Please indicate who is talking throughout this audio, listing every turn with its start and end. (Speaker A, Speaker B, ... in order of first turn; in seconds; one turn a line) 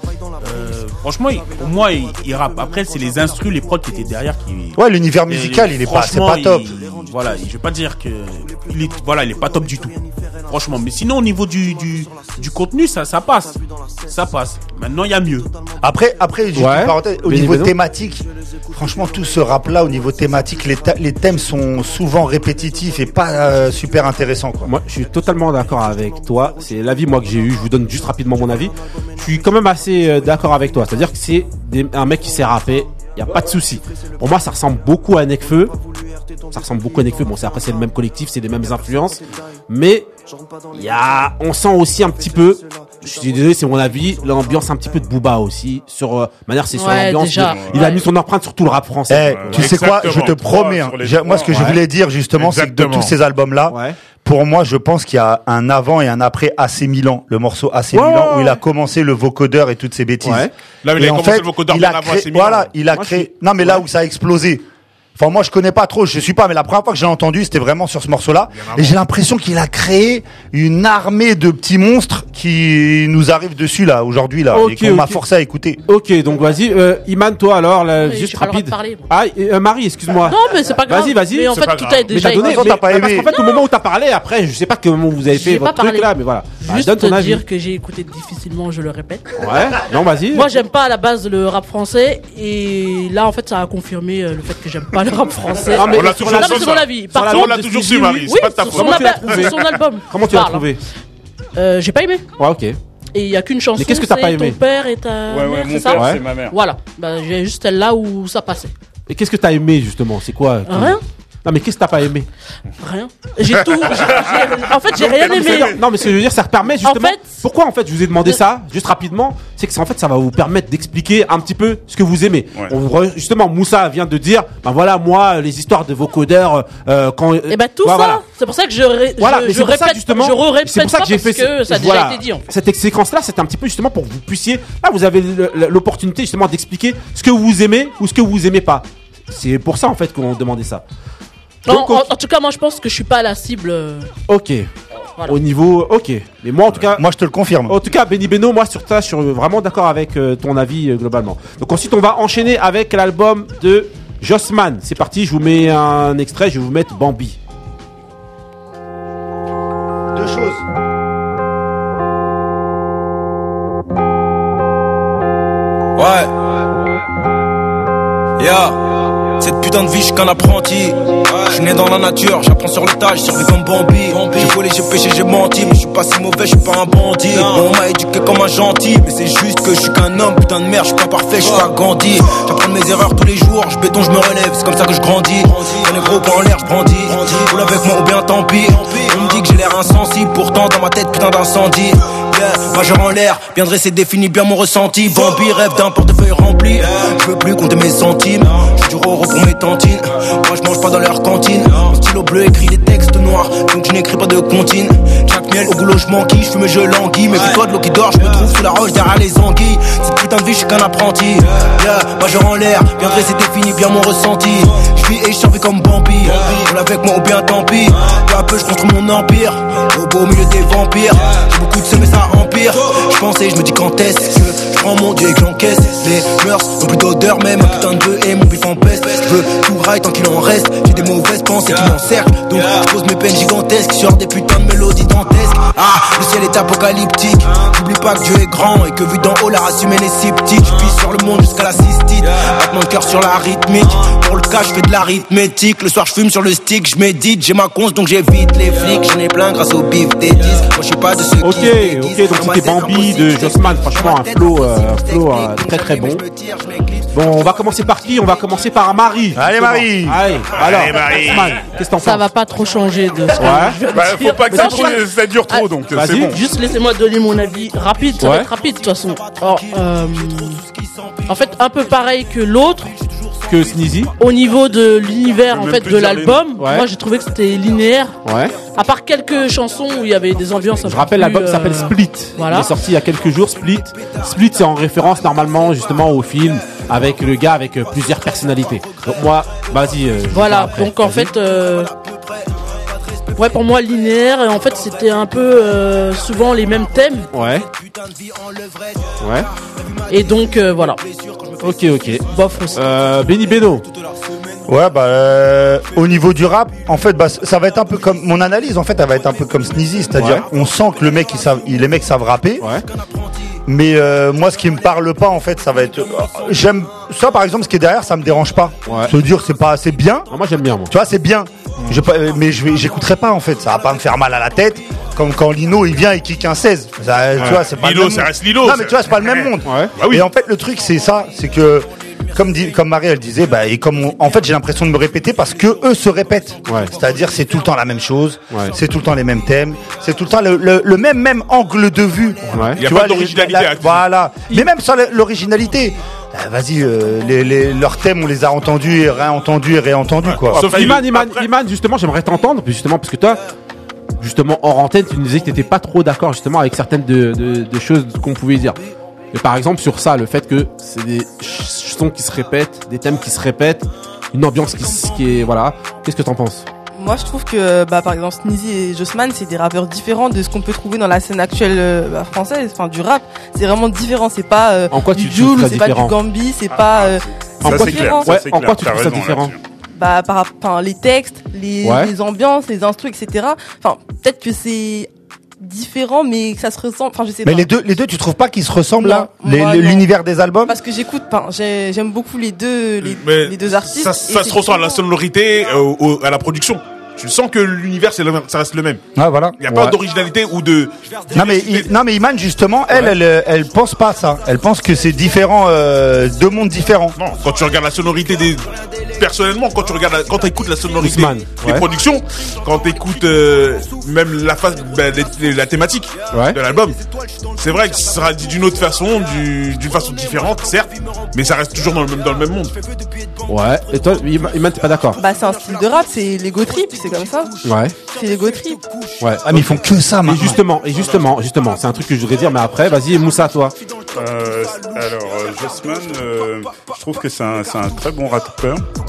Speaker A: 0.4-10.0
Speaker B: 4.7-6.8
Speaker A: 10.5-15.5
Speaker B: 15.8-24.7
Speaker C: 16.6-17.7
Speaker C: 24.6-35.7
Speaker C: 36.5-40.1
Speaker C: 40.7-49.6
Speaker D: 46.7-48.1
Speaker E: 47.4-47.9
Speaker B: 49.1-64.6
Speaker E: 49.3-51.6
Speaker F: 49.5-50.4
Speaker C: 51.5-51.8
Speaker F: 52.4-53.1
Speaker C: 53.7-54.0
Speaker C: 57.9-58.6
Speaker C: 60.2-60.5
Speaker F: 60.8-62.7
Speaker C: 62.9-63.8
Speaker B: 65.2-75.8
Speaker F: 68.6-69.0
Speaker C: 74.5-75.2
Speaker C: 75.9-87.4
Speaker D: 78.0-79.1
Speaker D: 80.2-83.7
Speaker F: 81.5-82.2
Speaker B: 82.3-83.3
Speaker D: 85.3-89.3
Speaker C: 89.4-90.5
Speaker D: 90.3-97.7
Speaker C: 95.7-100.8
Speaker F: 95.9-99.6
Speaker D: 98.2-100.7
Speaker D: 101.6-102.2
Speaker C: 102.4-102.8
Speaker D: 103.1-108.7
Speaker C: 103.8-104.6
Speaker E: 105.3-106.6
Speaker C: 105.9-106.2
Speaker C: 109.1-112.3
Speaker D: 110.7-111.0
Speaker D: 112.8-115.8
Speaker E: 113.9-115.7
Speaker C: 115.0-128.2
Speaker D: 116.8-117.4
Speaker D: 127.5-132.4
Speaker C: 129.2-140.8
Speaker C: 141.7-142.0
Speaker D: 141.7-144.1
Speaker C: 144.3-144.7
Speaker C: 145.2-147.1
Speaker B: 146.9-147.8
Speaker C: 147.7-157.4
Speaker B: 160.1-160.6
Speaker G: 166.0-166.3
Speaker G: 168.4-168.8
Speaker G: 169.4-257.4
Speaker C: 251.4-256.2
Speaker C: 257.1-262.3
Speaker B: 259.4-260.2
Speaker F: 260.6-261.6
Speaker D: 262.0-270.6
Speaker C: 263.4-263.8
Speaker E: 263.9-266.4
Speaker C: 264.5-265.0
Speaker C: 265.9-266.4
Speaker C: 268.2-268.5
Speaker G: 269.2-269.6
Speaker D: 271.2-272.9
Speaker C: 273.5-274.1
Speaker D: 274.1-282.7
Speaker E: 275.5-276.5
Speaker C: 276.6-276.9
Speaker C: 278.2-278.6
Speaker C: 280.8-291.3
Speaker D: 290.3-291.9
Speaker D: 293.4-297.3
Speaker C: 297.3-297.7
Speaker G: 297.7-298.9
Speaker C: 299.2-299.5
Speaker D: 300.1-301.0
Speaker C: 301.6-303.9
Speaker D: 302.2-302.9
Speaker B: 304.7-312.6
Speaker C: 310.1-310.4
Speaker B: 313.7-320.3
Speaker C: 318.9-319.1
Speaker C: 320.3-320.9
Speaker B: 320.9-350.7
Speaker F: 327.4-330.3
Speaker C: 329.6-329.9
Speaker C: 336.7-336.9
Speaker C: 342.5-342.8
Speaker F: 342.8-344.0
Speaker F: 350.2-351.5
Speaker C: 350.5-353.4
Speaker C: 354.2-358.8
Speaker C: 359.3-366.6
Speaker H: 367.0-378.3
Speaker C: 374.9-376.1
Speaker E: 376.7-379.6
Speaker C: 377.6-379.5
Speaker H: 379.9-385.1
Speaker C: 381.8-382.1
Speaker H: 385.6-387.7
Speaker B: 387.4-390.8
Speaker H: 389.0-390.1
Speaker H: 390.7-395.0
Speaker F: 393.0-399.0
Speaker B: 399.1-399.6
Speaker F: 399.6-401.9
Speaker C: 399.7-399.9
Speaker B: 401.3-407.2
Speaker C: 402.9-403.1
Speaker F: 407.1-417.0
Speaker C: 411.0-411.9
Speaker C: 416.3-416.6
Speaker F: 417.6-422.8
Speaker C: 423.5-425.2
Speaker H: 425.2-428.8
Speaker C: 427.6-427.9
Speaker C: 429.2-429.7
Speaker B: 429.4-430.6
Speaker C: 430.2-433.7
Speaker E: 434.1-438.8